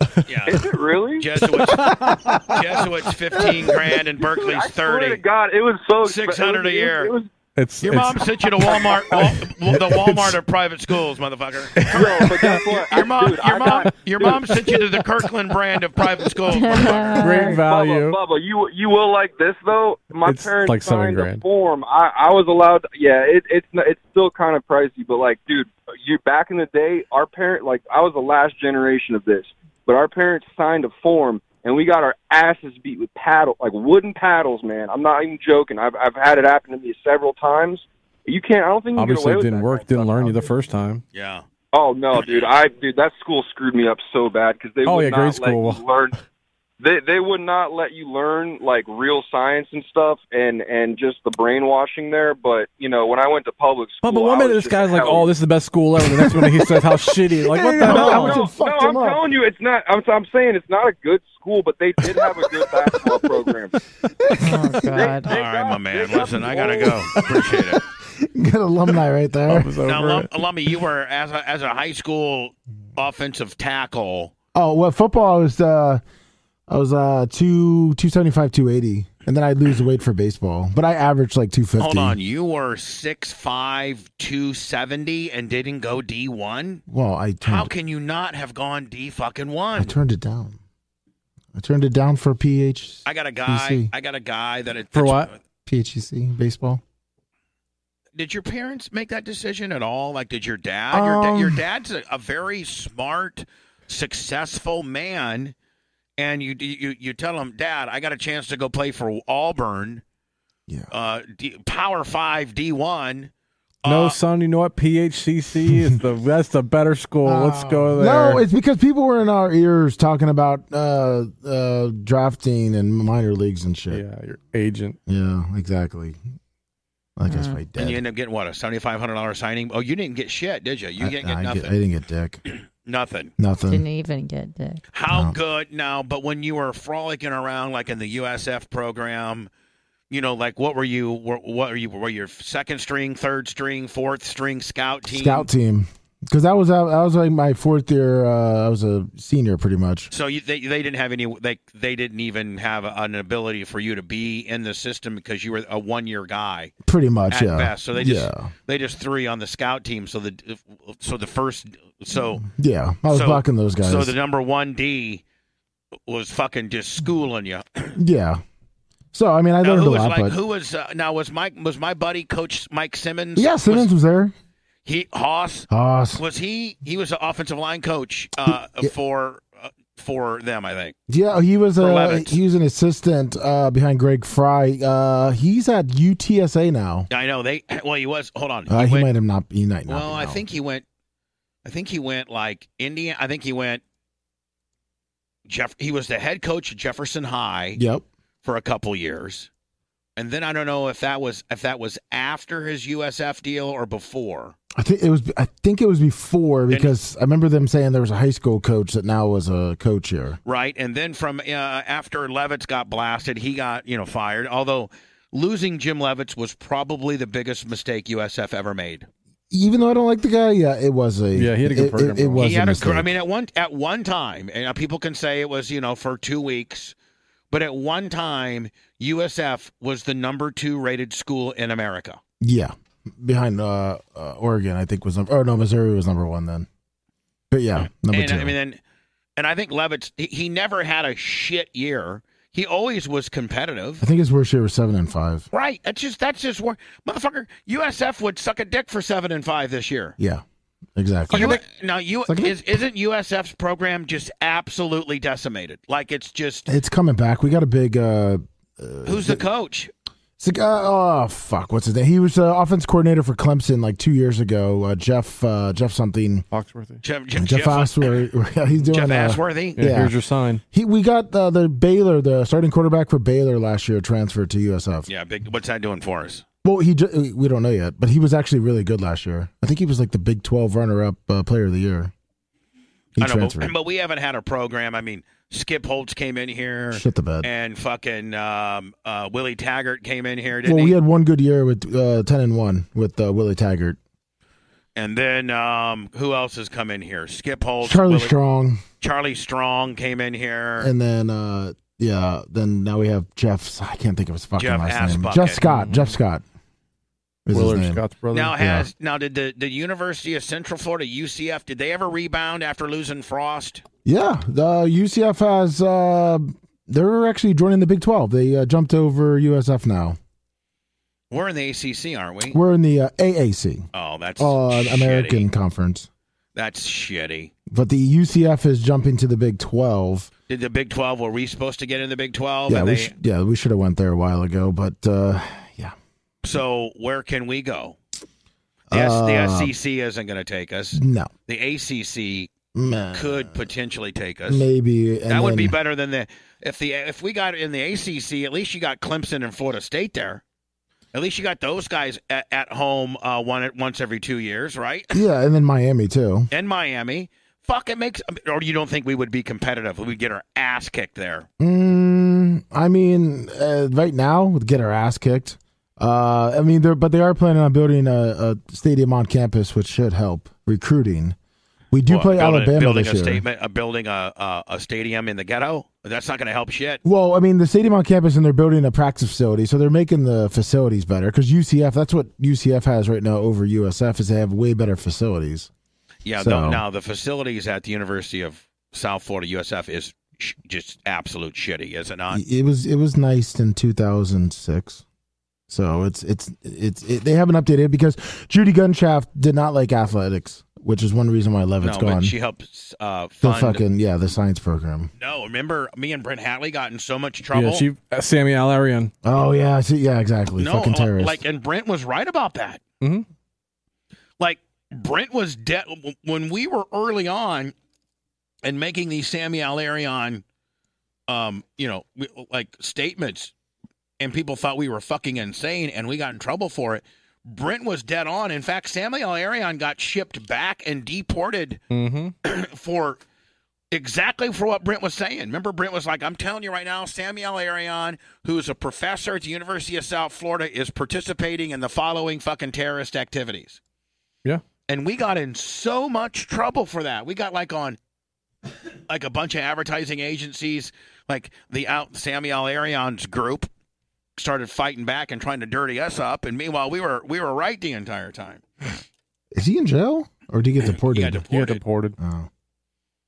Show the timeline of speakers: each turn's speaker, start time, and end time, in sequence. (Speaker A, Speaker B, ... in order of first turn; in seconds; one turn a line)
Speaker A: 0.2-0.6
Speaker B: 0.5-1.3
Speaker A: 1.2-1.9
Speaker C: 1.4-2.6
Speaker A: 2.5-5.2
Speaker B: 4.2-7.3
Speaker A: 6.0-7.1
Speaker C: 7.5-10.4
Speaker A: 7.8-17.2
Speaker B: 8.6-9.0
Speaker C: 11.7-13.0
Speaker B: 11.9-14.5
Speaker C: 14.1-14.8
Speaker D: 16.5-17.6
Speaker C: 17.2-18.2
Speaker B: 17.2-40.5
Speaker C: 20.2-21.4
Speaker C: 38.9-41.0
Speaker A: 41.1-41.4
Speaker B: 41.7-46.1
Speaker C: 44.8-45.8
Speaker B: 46.8-55.3
Speaker C: 54.0-58.5
Speaker E: 56.2-56.5
Speaker E: 57.3-59.2
Speaker B: 57.8-63.7
Speaker E: 62.1-63.2
Speaker E: 64.1-65.2
Speaker D: 64.4-65.3
Speaker B: 64.9-67.0
Speaker A: 65.3-67.8
Speaker E: 66.5-69.7
Speaker C: 69.5-70.3
Speaker A: 69.8-74.3
Speaker E: 74.5-76.0
Speaker E: 76.7-82.2
Speaker A: 81.8-86.8
Speaker E: 86.9-87.7
Speaker A: 87.4-89.9
Speaker E: 89.8-90.6
Speaker E: 91.5-93.9
Speaker A: 93.0-95.4
Speaker C: 94.9-95.3
Speaker E: 95.7-96.8
Speaker A: 98.2-105.5
Speaker E: 100.9-101.6
Speaker A: 106.2-110.0
Speaker A: 110.9-113.3
Speaker A: 113.8-114.2
Speaker C: 113.8-118.4
Speaker E: 117.2-124.0
Speaker C: 123.9-125.0
Speaker E: 125.1-126.2
Speaker E: 127.2-128.0
Speaker D: 127.3-127.6
Speaker A: 127.8-131.7
Speaker E: 131.0-132.4
Speaker A: 132.4-133.3
Speaker E: 133.4-133.8
Speaker D: 133.7-134.8
Speaker A: 134.9-139.5
Speaker E: 135.1-135.3
Speaker A: 140.1-145.5
Speaker E: 145.1-150.1
Speaker A: 150.1-156.7
Speaker E: 156.8-158.5
Speaker A: 157.3-162.4
Speaker E: 162.4-164.1
Speaker A: 163.1-165.2
Speaker A: 166.1-168.0
Speaker E: 167.9-168.4
Speaker E: 169.1-170.4
Speaker A: 169.6-173.9
Speaker E: 173.3-174.3
Speaker A: 174.8-180.9
Speaker E: 175.7-176.2
Speaker E: 178.5-178.9
Speaker E: 181.1-187.1
Speaker A: 181.8-182.4
Speaker A: 187.1-189.1
Speaker E: 188.7-190.4
Speaker A: 189.9-190.8
Speaker A: 191.6-193.8
Speaker A: 195.4-197.8
Speaker E: 197.8-198.1
Speaker A: 198.4-199.5
Speaker A: 200.2-204.6
Speaker E: 204.7-210.4
Speaker A: 206.7-206.9
Speaker A: 210.4-219.1
Speaker E: 219.5-223.1
Speaker C: 221.3-222.4
Speaker A: 222.4-226.9
Speaker A: 227.5-232.2
Speaker E: 232.4-236.7
Speaker E: 237.5-238.5
Speaker A: 237.8-238.8
Speaker A: 239.4-244.0
Speaker E: 244.0-245.4
Speaker A: 245.5-250.2
Speaker E: 250.2-250.4
Speaker E: 250.9-251.6
Speaker C: 251.3-251.6
Speaker A: 251.3-256.7
Speaker E: 252.2-252.5
Speaker E: 256.7-259.4
Speaker A: 259.0-259.9
Speaker E: 260.4-266.4
Speaker C: 266.5-267.0
Speaker A: 267.0-268.1
Speaker E: 267.4-270.2
Speaker A: 268.9-269.8
Speaker C: 269.8-270.6
Speaker E: 270.7-275.1
Speaker A: 275.1-276.4
Speaker E: 276.6-282.1
Speaker E: 283.2-283.7
Speaker A: 283.2-291.0
Speaker E: 286.9-287.5
Speaker E: 290.6-294.0
Speaker A: 294.9-298.3
Speaker E: 297.8-298.8
Speaker A: 299.0-300.9
Speaker E: 300.8-306.4
Speaker A: 304.6-305.6
Speaker C: 305.6-306.1
Speaker E: 307.4-308.0
Speaker C: 307.5-308.5
Speaker A: 308.3-313.8
Speaker E: 308.6-308.9
Speaker E: 314.0-320.2
Speaker A: 321.3-322.6
Speaker E: 322.5-323.9
Speaker A: 323.9-325.5
Speaker E: 324.4-326.1
Speaker A: 326.5-327.5
Speaker E: 327.7-330.3
Speaker A: 330.5-333.1
Speaker E: 332.7-335.9
Speaker A: 336.4-338.0
Speaker E: 338.9-339.7
Speaker A: 338.9-342.5
Speaker E: 340.9-341.3
Speaker E: 342.7-343.6
Speaker A: 343.1-344.7
Speaker E: 344.5-345.8
Speaker A: 345.3-350.4
Speaker A: 351.1-355.2
Speaker E: 355.1-356.5
Speaker A: 356.5-361.5
Speaker E: 361.6-371.4
Speaker E: 371.9-373.4
Speaker A: 372.1-377.0
Speaker E: 377.0-385.7
Speaker A: 386.2-392.4
Speaker E: 386.4-386.8
Speaker E: 392.3-395.0
Speaker E: 395.7-402.3
Speaker A: 401.8-403.8
Speaker E: 403.4-405.1
Speaker A: 405.2-407.9
Speaker C: 407.5-409.1
Speaker E: 409.2-411.4
Speaker A: 410.6-412.8
Speaker C: 413.0-413.2
Speaker A: 414.4-417.7
Speaker A: 418.6-420.4
Speaker A: 421.3-423.5
Speaker A: 424.2-431.8
Speaker C: 431.9-432.3
Speaker A: 432.4-433.2
Speaker A: 433.9-443.8
Speaker A: 444.9-448.0
Speaker A: 449.1-453.7
Speaker A: 454.4-459.0
Speaker E: 459.5-461.4
Speaker A: 460.9-461.8
Speaker C: 461.5-462.2
Speaker E: 462.2-462.5